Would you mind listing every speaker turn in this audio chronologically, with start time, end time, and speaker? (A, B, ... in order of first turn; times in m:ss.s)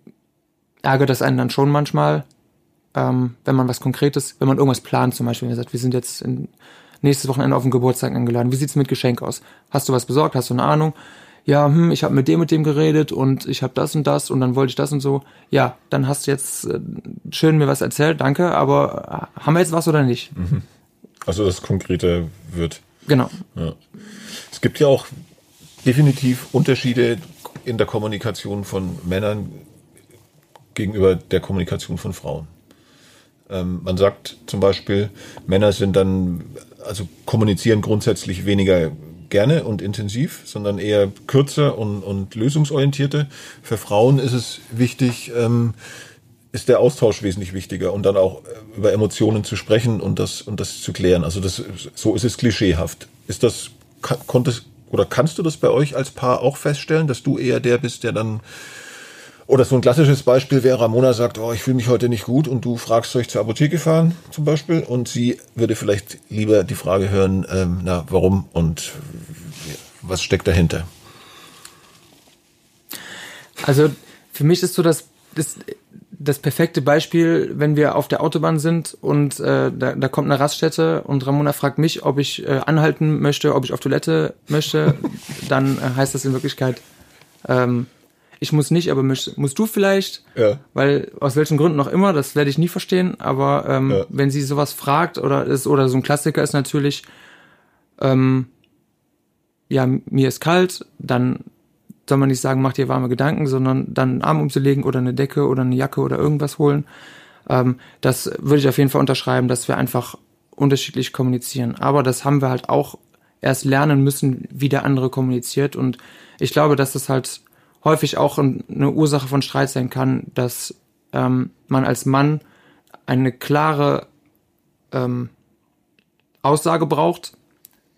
0:00.8-0:02.2 A
0:02.9-0:10.9 A
0:11.4-0:20.3 A
0:20.3-0:20.6 B
0:21.2-0:22.8 B
0:23.0-0:23.4 A
0:23.5-0:25.2 B
0:25.8-0:29.6 B
0:30.7-0:32.5 B
0:33.5-0:45.8 B
0:46.5-0:58.8 B
0:59.5-1:10.9 B
1:13.6-1:26.8 A
1:27.4-1:27.9 A
1:28.4-1:37.0 A
1:30.3-1:30.6 B
1:38.0-1:38.5 A
1:39.7-1:41.4 A
1:42.0-1:46.8 A
1:47.5-2:02.4 A
2:03.1-2:04.1 A
2:04.9-2:05.3 A
2:06.4-2:07.3 A